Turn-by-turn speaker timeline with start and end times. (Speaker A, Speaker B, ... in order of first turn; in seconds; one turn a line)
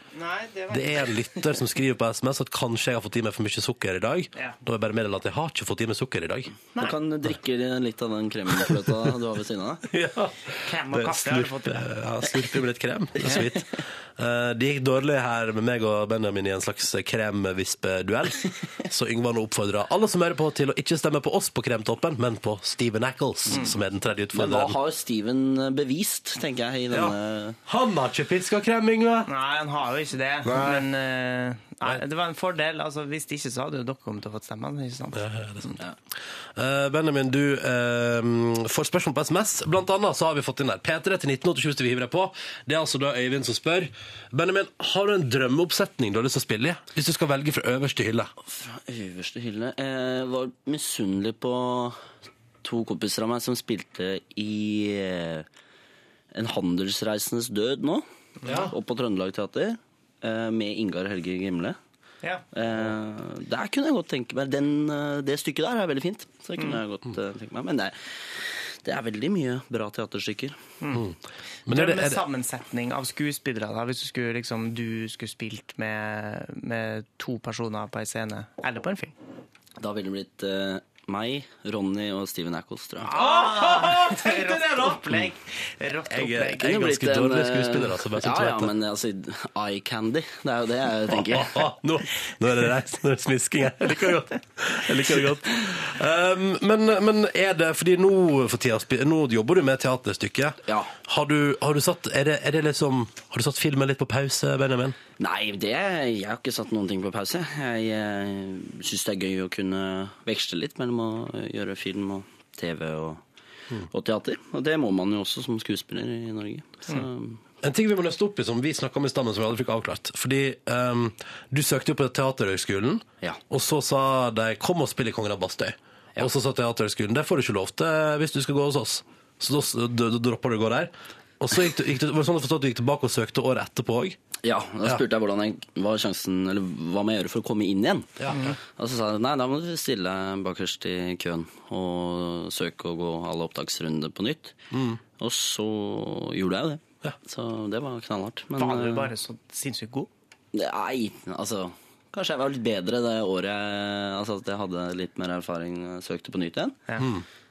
Speaker A: 0.1-1.4
Speaker B: 0.7-6.5
Speaker C: 6.8-9.8
Speaker B: 9.9-24.8
Speaker A: 10.6-11.8
Speaker C: 13.2-13.6
Speaker C: 24.3-27.6
Speaker B: 26.9-29.3
Speaker A: 29.3-35.7
Speaker B: 30.4-30.9
Speaker B: 35.1-35.7
Speaker B: 36.5-48.3
Speaker C: 48.4-52.0
Speaker C: 52.6-55.5
Speaker C: 56.3-61.8
Speaker A: 58.4-58.7
Speaker B: 58.4-58.7
Speaker C: 62.5-70.6
Speaker B: 70.9-72.2
Speaker A: 71.7-79.1
Speaker C: 79.8-83.2
Speaker A: 83.1-86.7
Speaker B: 83.1-85.3
Speaker B: 86.1-88.7
Speaker C: 86.6-91.6
Speaker B: 91.1-105.0
Speaker C: 100.7-100.9
Speaker C: 105.2-113.2
Speaker C: 113.9-117.4
Speaker B: 117.6-134.2
Speaker C: 134.4-144.6
Speaker B: 138.2-138.5
Speaker A: 138.3-138.6
Speaker B: 144.7-145.0
Speaker C: 145.2-149.1
Speaker A: 148.6-150.1
Speaker C: 150.5-156.8
Speaker B: 157.0-157.2